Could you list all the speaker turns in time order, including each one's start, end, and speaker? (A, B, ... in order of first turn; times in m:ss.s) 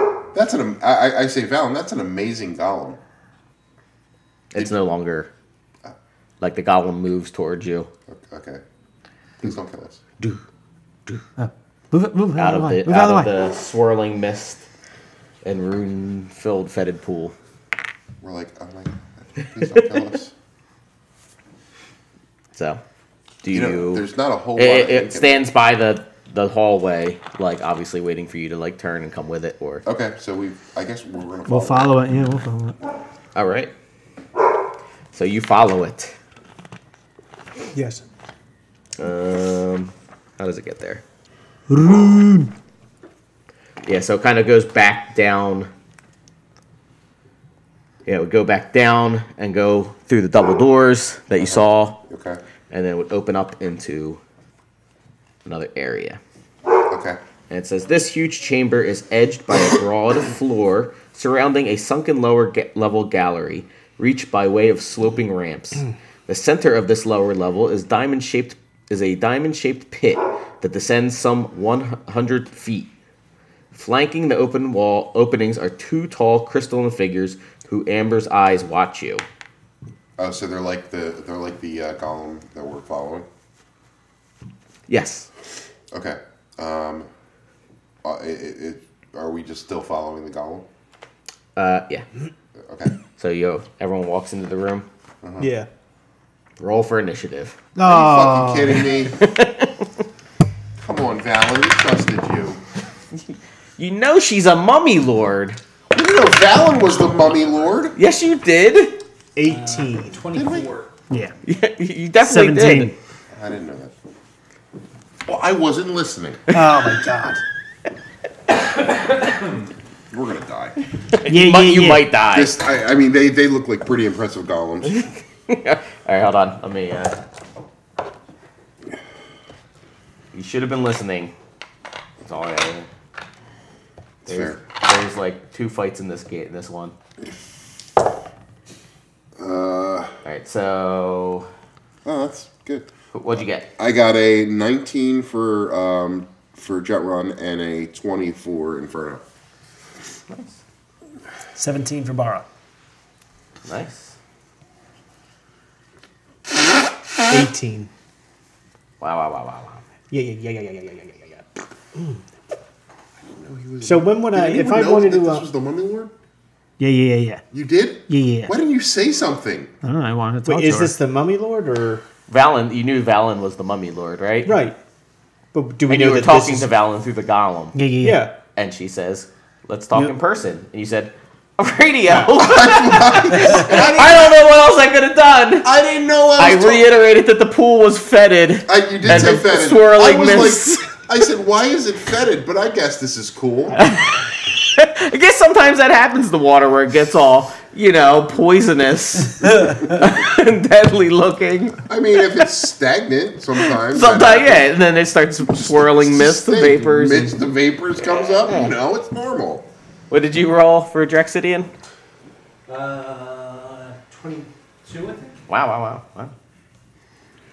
0:00.3-0:03.0 A
0:04.5-0:05.3 B
0:06.4-0:07.9 B
0:08.1-0:08.6 A
0:09.4-0:10.0 A
0:11.4-0:13.3 C
0:12.4-0:14.6 B
0:15.4-0:17.3 B
0:18.2-0:20.3 A
0:22.5-0:22.8 B
0:23.4-0:29.8 B
0:23.5-0:25.5 A
0:29.8-0:31.9 A
0:31.5-0:32.8 C
0:33.3-0:33.7 B
0:35.1-0:36.2 B
0:37.7-0:38.0 D
0:39.0-0:41.0 B
0:41.7-0:42.5 C
0:43.8-0:45.7 B
0:48.0-0:52.0 B
0:51.4-0:52.4 A
0:52.7-0:54.2 B
0:55.4-0:56.2 B
0:56.9-0:57.2 A
0:57.5-1:12.9 B
1:13.7-1:19.2 B
1:20.2-1:23.3 A
1:24.9-1:25.3 B
1:25.9-1:27.1 A
1:28.0-1:30.6 A
1:31.6-1:32.0 B
1:32.6-1:32.9 A
1:33.2-1:34.9 B
1:35.2-1:35.5 A
1:35.4-1:35.7 D
1:36.6-1:37.6 B
1:37.8-1:39.0 C
1:37.8-1:39.1 A
1:39.1-1:39.9 B
1:40.8-1:42.6 A
1:43.1-1:45.6 B
1:45.9-1:48.0 A
1:47.9-1:49.0 B
1:49.3-1:50.2 D
1:49.4-1:50.8 E
1:50.3-1:50.9 A
1:51.4-1:52.9 B
1:52.2-1:52.9 C
1:53.3-1:53.9 A
1:55.2-1:56.4 A
1:56.5-1:57.4 D
2:00.1-2:00.8 A
2:01.1-2:02.5 B
2:01.3-2:02.1 C
2:02.3-2:05.0 A
2:04.8-2:07.2 B
2:10.3-2:11.3 B
2:12.2-2:12.9 B
2:14.2-2:14.6 A
2:14.2-2:16.9 B
2:19.4-2:20.2 A
2:20.2-2:21.5 B
2:22.0-2:22.9 A
2:23.1-2:23.7 B
2:23.8-2:29.2 A
2:30.3-2:30.6 B
2:31.6-2:32.4 C
2:33.6-2:34.2 B
2:37.3-2:37.9 D
2:39.0-2:39.8 B
2:40.1-2:41.4 D
2:43.3-2:46.1 A
2:43.8-2:45.4 D
2:46.8-2:47.4 C
2:47.5-2:49.7 A
2:48.1-2:48.5 C
2:49.8-2:51.0 C
2:50.4-2:52.0 D
2:52.3-2:54.6 B
2:54.4-2:54.8 D
2:55.5-2:56.7 D
2:55.9-2:57.8 B
2:57.7-2:58.3 C
2:58.0-2:58.3 D
2:58.5-3:05.7 B
3:02.1-3:04.3 A
3:05.6-3:06.9 A
3:06.4-3:11.0 B
3:08.7-3:13.8 A
3:13.7-3:22.4 B
3:21.9-3:24.7 A
3:23.6-3:27.4 B
3:25.5-3:29.6 A
3:28.0-3:28.7 B
3:30.1-3:31.7 B
3:32.7-3:35.4 E
3:35.5-3:36.3 B